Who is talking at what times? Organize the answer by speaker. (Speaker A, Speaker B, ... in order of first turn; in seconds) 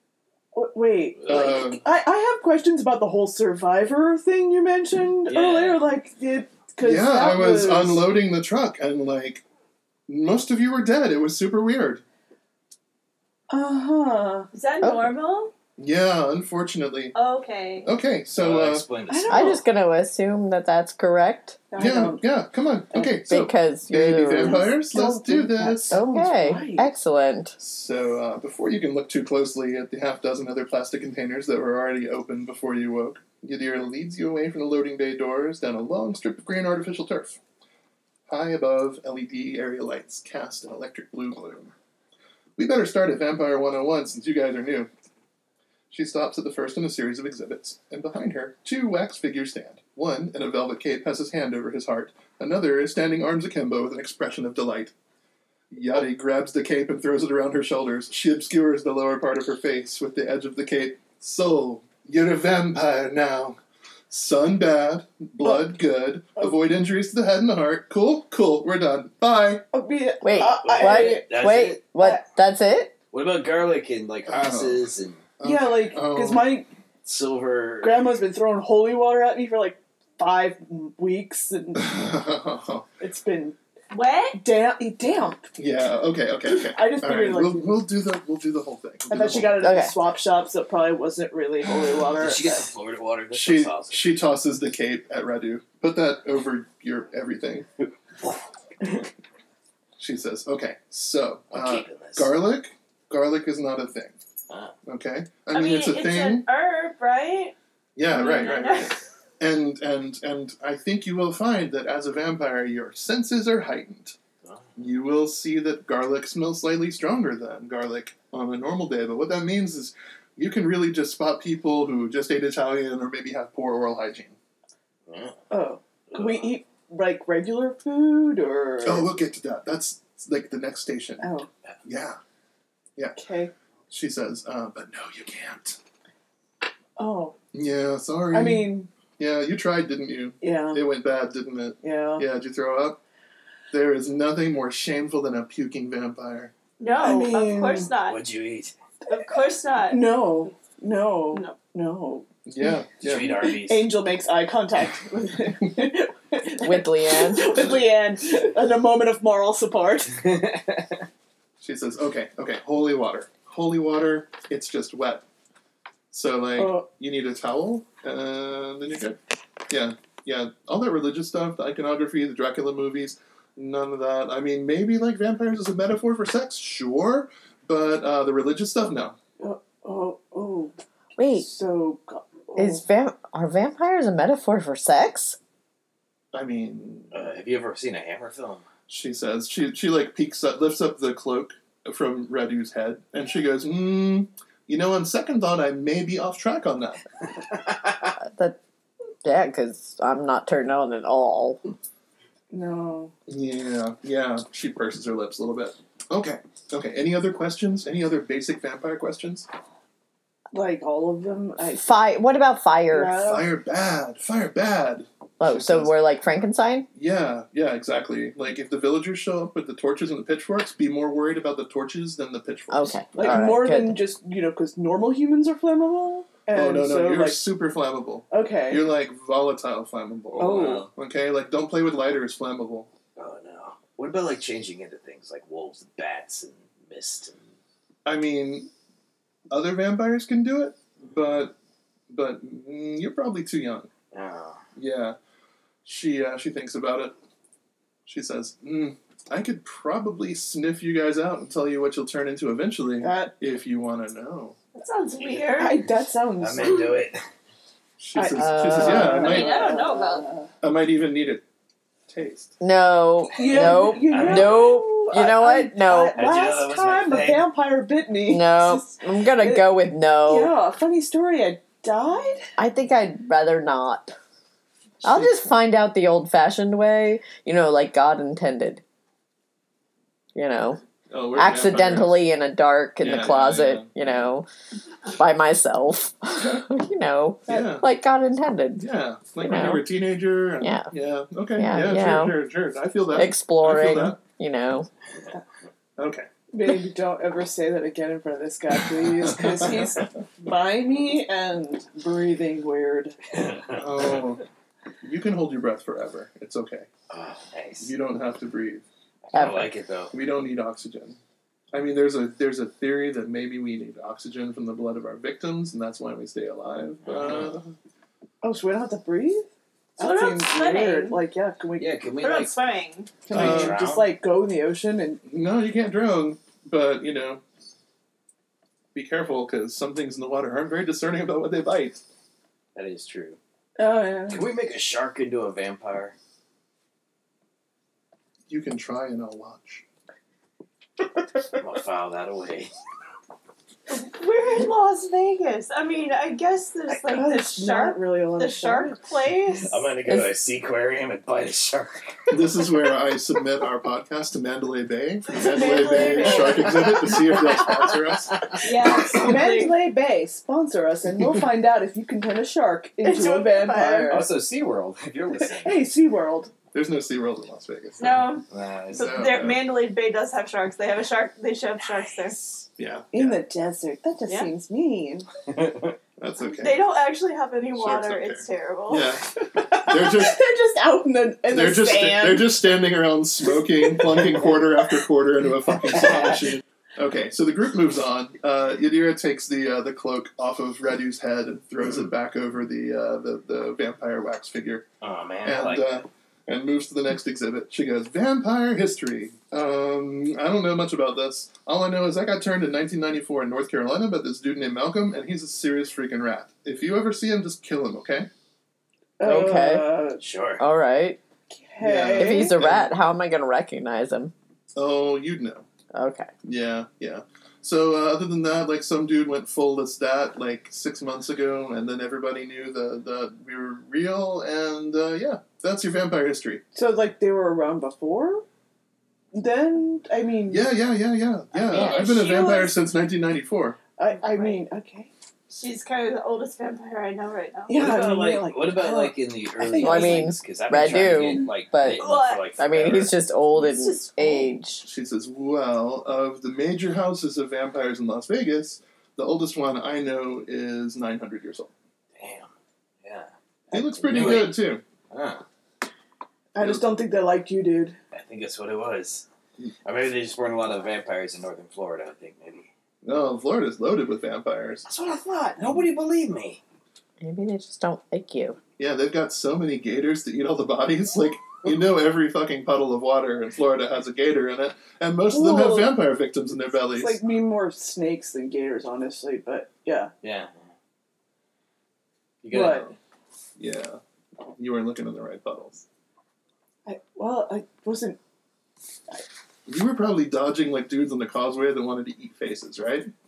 Speaker A: 0.5-8.0, 13.5-14.5, 19.1-19.6, 21.7-22.2, 24.4-26.9, 65.4-65.7, 69.7-71.3, 75.4-76.7, 77.8-82.0, 83.0-83.6, 84.4-85.5, 86.5-87.8, 89.1-92.6, 125.5-129.1, 131.2-131.5, 133.2-133.5, 137.0-137.3, 138.3-138.9, 140.4-140.8, 141.8-142.2, 147.0-147.9, 149.9-160.2, 166.6-166.8, 179.4-180.7, 181.3-182.8, 202.5-203.1, 210.5-211.9, 212.9-213.5, 223.2-227.4, 228.3-228.8, 230.4-230.8, 253.0-253.3, 255.5-257.0, 258.1-260.5, 263.3-269.7, 270.2-272.4, 296.5-303.2, 318.4-322.0, 323.2-325.2, 333.8-334.5, 347.1-349.0, 355.3-357.2, 358.9-364.3, 365.5-366.5, 373.1-375.3, 379.5-382.5, 409.2-410.2, 411.5-412.6, 426.7-428.4, 429.3-430.7, 434.0-435.1, 437.7-441.5, 453.7-454.5, 456.5-457.9, 475.3-476.0, 476.9-480.1, 482.5-482.9, 486.9-488.2
Speaker B: 1.3-1.8, 6.8-9.4, 10.1-12.0, 15.8-17.1, 17.8-18.9, 21.8-26.0, 27.6-37.4, 38.3-41.7, 42.6-44.9, 45.9-54.9, 55.7-63.6, 64.1-69.6, 74.3-74.8, 75.4-76.5, 81.7-82.9, 85.5-89.7, 93.3-97.7, 100.0-104.2, 104.8-106.5, 108.0-114.2, 114.8-124.3, 128.8-131.3, 131.8-132.2, 133.9-135.8, 137.5-143.0, 143.7-146.5, 152.4-153.3, 161.6-165.2, 166.1-179.2, 186.3-187.2, 188.9-197.0, 203.3-209.5, 213.2-215.9, 216.9-223.2, 226.5-232.9, 238.0-238.7, 239.5-241.5, 242.1-243.9, 244.8-245.2, 245.8-247.1, 248.1-254.6, 258.0-259.6, 260.6-261.4, 262.1-262.5, 281.1-282.2, 283.0-283.9, 287.5-287.9, 288.8-294.2, 296.0-296.3, 303.8-304.4, 305.0-306.9, 307.8-308.8, 310.1-311.2, 311.7-317.8, 323.3-323.8, 325.3-327.4, 328.9-332.0, 338.5-339.8, 352.3-359.0, 366.7-368.4, 368.9-369.6, 372.8-373.4, 376.2-376.8, 377.7-380.4, 381.5-394.9, 395.4-408.3, 411.8-412.9, 414.7-415.7, 416.4-426.6, 430.5-433.8, 444.8-451.7, 453.7-454.8, 456.6-456.9, 463.0-464.8, 468.8-477.2, 483.6-484.0, 484.6-485.8, 489.7-493.1
Speaker C: 5.3-5.8, 18.4-19.6, 70.3-71.8, 73.1-75.3, 77.0-78.1, 92.1-94.0, 98.2-99.0, 101.5-102.3, 125.1-125.4, 126.1-126.5, 148.1-148.7, 153.0-153.9, 187.1-188.6, 230.4-230.9, 233.2-237.4, 244.1-244.6, 256.4-257.2, 264.1-264.8, 266.1-267.5, 303.3-304.2, 307.1-307.9, 309.3-310.1, 317.0-317.5, 321.8-322.5, 323.3-324.1, 332.7-333.4, 334.3-336.1, 341.6-342.7, 349.7-352.4, 356.4-358.6, 364.1-365.8, 368.5-369.2, 375.5-375.9, 395.0-396.0, 410.2-410.6, 437.7-443.1, 452.2-452.5, 453.0-453.3, 454.0-455.4, 458.1-459.2, 459.8-462.7, 464.9-466.6, 480.2-480.6, 482.4-482.9
Speaker D: 14.5-15.5, 17.1-17.9, 83.9-84.4, 105.5-107.5, 108.1-109.0, 146.8-148.2, 149.1-150.1, 151.3-151.6, 254.7-255.8, 259.2-260.3, 320.0-321.2, 322.2-323.2, 343.9-349.7, 355.4-356.6, 358.6-359.8, 363.0-364.2, 368.0-372.4, 374.3-374.5, 376.6-379.1, 431.5-432.7, 434.1-434.6, 435.5-437.9, 441.9-442.4, 443.5-444.5
Speaker E: 14.8-15.1, 19.3-21.6, 23.2-24.6, 25.9-27.6, 70.2-72.9, 89.6-89.9, 156.6-157.5, 181.2-181.5, 182.6-185.4, 198.2-198.6, 199.2-201.6, 211.8-213.2, 215.4-216.8, 222.7-224.0, 258.3-259.3, 262.6-266.2, 268.3-270.5, 272.6-274.1, 275.0-278.8, 280.3-280.8, 281.3-284.5, 285.1-288.9, 289.4-289.8, 290.6-290.9, 291.6-292.4, 293.1-294.9, 309.3-309.7, 409.2-409.9, 410.6-411.2, 412.1-414.3, 415.9-416.3, 439.8-444.8, 467.2-468.6